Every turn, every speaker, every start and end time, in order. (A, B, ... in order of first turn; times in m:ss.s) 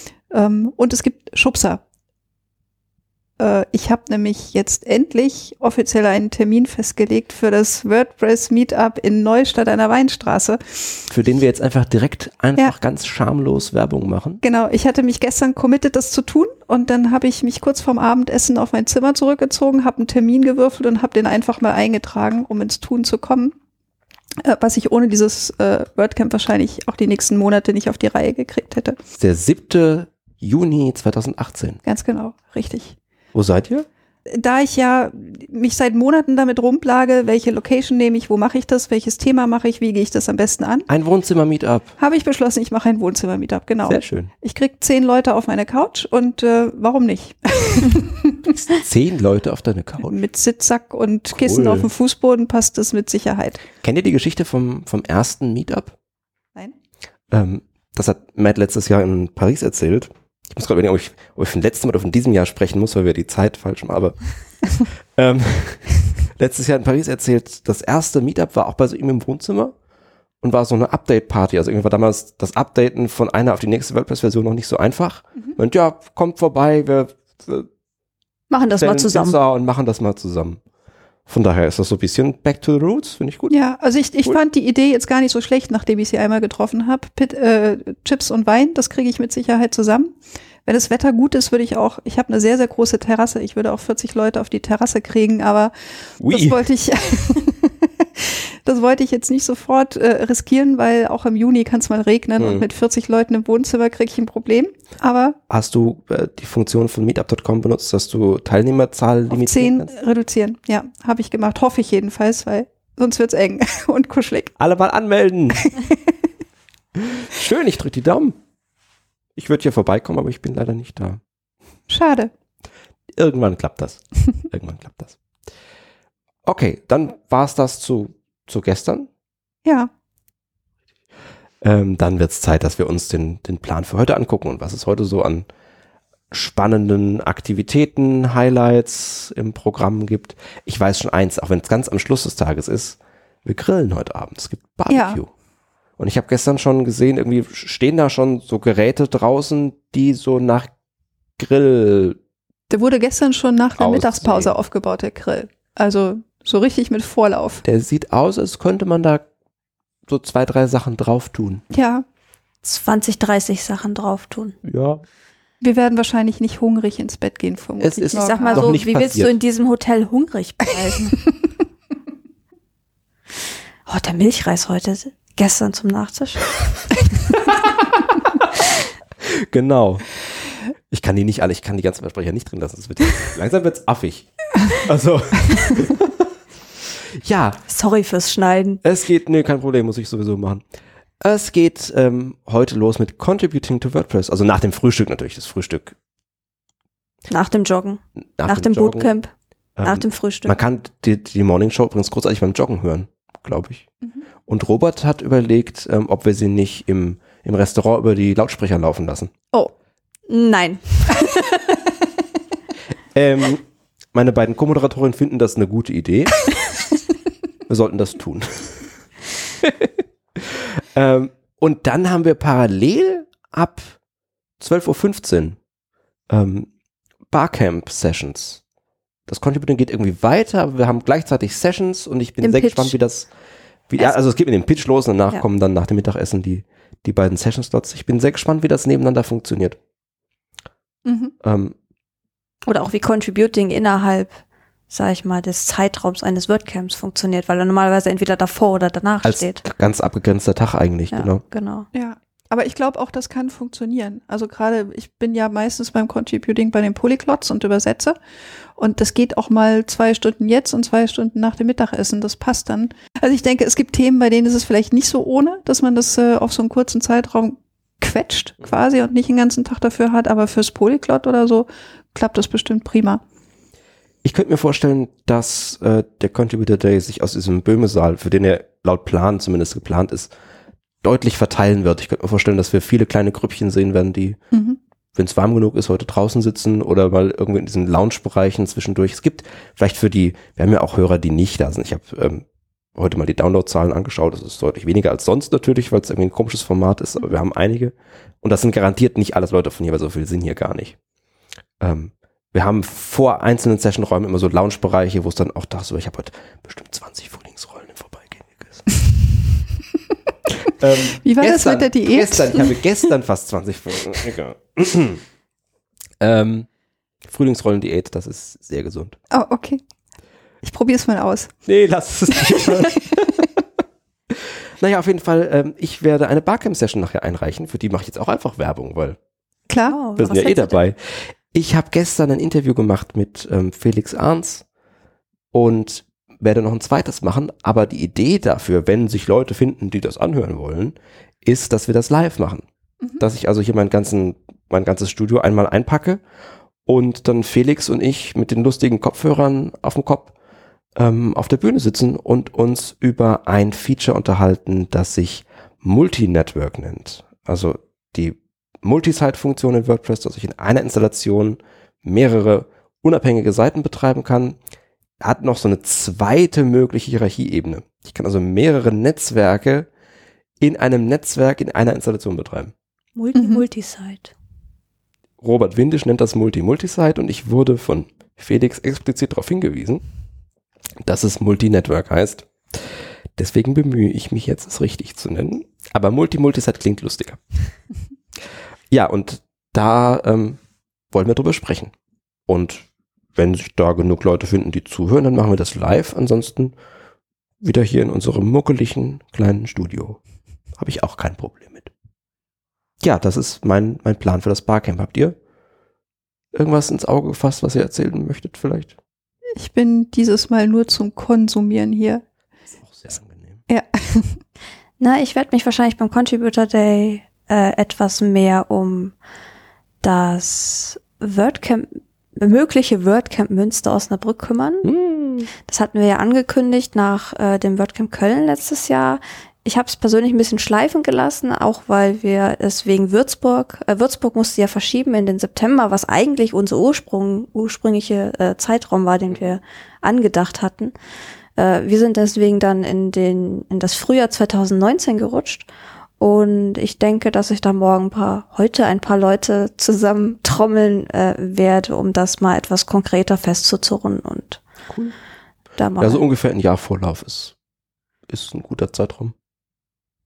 0:00.3-0:01.8 A
0:03.4-0:11.0 A
0:11.1-0:14.4 B
0:14.4-0:23.5 A
0:24.4-0:29.0 A
0:29.2-0:31.8 B
0:31.8-0:33.0 A
0:33.3-0:33.9 B
0:34.3-0:40.9 A
0:40.9-0:41.9 B
0:42.0-0:48.4 A
0:43.8-0:44.3 B
0:48.7-0:50.2 B
0:50.0-0:53.6 A
0:51.3-0:51.9 B
0:53.8-0:55.9 B
0:57.3-1:04.2 B
1:04.7-1:09.7 B
1:10.4-1:17.7 B
1:18.5-1:19.4 C
1:18.7-1:20.6 B
1:21.3-1:23.5 B
1:23.5-1:45.4 A
1:36.2-1:36.6 B
1:42.4-1:42.6 B
1:45.5-1:49.9 B
1:49.3-1:54.6 A
1:54.6-1:55.7 B
1:55.6-1:56.2 A
1:57.0-1:58.4 B
1:59.4-2:01.2 B
2:01.9-2:02.3 A
2:03.2-2:05.2 B
2:06.4-2:09.1 B
2:09.6-2:09.9 A
2:11.6-2:15.5 B
2:16.3-2:25.3 B
2:24.9-2:25.2 A
2:26.0-2:30.7 B
2:31.4-2:32.2 B
2:32.7-2:37.6 A
2:33.8-2:34.6 B
2:37.6-2:39.2 B
2:40.1-2:41.6 B
2:41.7-2:42.0 A
2:42.6-2:44.6 C
2:44.6-2:45.0 B
2:45.6-2:48.7 A
2:47.8-2:49.3 B
2:48.1-2:51.3 C
2:53.9-2:56.5 C
2:59.2-3:00.0 B
3:00.9-3:06.3 B
3:07.0-3:07.6 B
3:07.7-3:08.8 C
3:08.8-3:10.6 B
3:11.2-3:16.0 B
3:17.3-3:19.3 C
3:18.4-3:19.1 B
3:19.8-3:23.9 B
3:19.8-3:20.6 C
3:24.5-3:29.3 B
3:30.3-3:31.8 C
3:33.1-3:36.4 B
3:37.7-3:38.9 B
3:39.6-3:44.0 B
3:44.6-3:45.6 B
3:46.3-3:46.7 B
3:47.3-3:48.6 B
3:49.3-3:53.3 B
3:52.4-3:52.9 C
3:53.9-3:59.8 B
4:01.0-4:01.3 A
4:01.4-4:01.7 B
4:02.6-4:09.6 C
4:09.2-4:11.4 B
4:11.1-4:11.9 C
4:11.9-4:18.2 A
4:18.8-4:33.2 A
4:34.2-4:40.3 B
4:41.0-4:44.4 B
4:44.5-4:44.8 A
4:45.1-4:52.4 B
4:53.0-5:01.0 B
5:01.8-5:08.8 B
5:10.8-5:15.2 B
5:11.1-5:12.8 A
5:16.2-5:16.7 B
5:17.2-5:19.2 B
5:19.3-5:19.8 A
5:20.6-5:21.5 A
5:21.6-5:23.5 B
5:24.3-5:29.2 B
5:29.7-5:30.0 A
5:29.9-5:30.8 C
5:30.2-5:34.6 B
5:35.5-5:42.6 B
5:43.2-5:46.2 B
5:46.8-5:50.3 B
5:51.0-6:04.6 B
6:05.2-6:09.9 B
6:10.6-6:12.7 B
6:13.2-6:14.3 C
6:13.3-6:13.6 A
6:15.4-6:20.0 B
6:21.0-6:27.4 B
6:28.9-6:30.6 B
6:31.1-6:31.9 B
6:32.5-6:36.7 B
6:37.6-6:40.2 B
6:40.8-6:41.9 B
6:43.0-6:45.4 B
6:46.5-6:49.0 B
6:49.6-6:52.2 A
6:52.8-6:53.6 B
6:53.7-6:54.4 A
6:55.0-6:59.1 C
7:00.0-7:04.9 C
7:04.8-7:05.5 B
7:05.6-7:20.9 C
7:21.6-7:25.6 C
7:26.2-7:34.6 C
7:34.9-7:35.1 B
7:35.8-7:36.2 C
7:36.0-7:37.5 B
7:38.3-7:39.3 B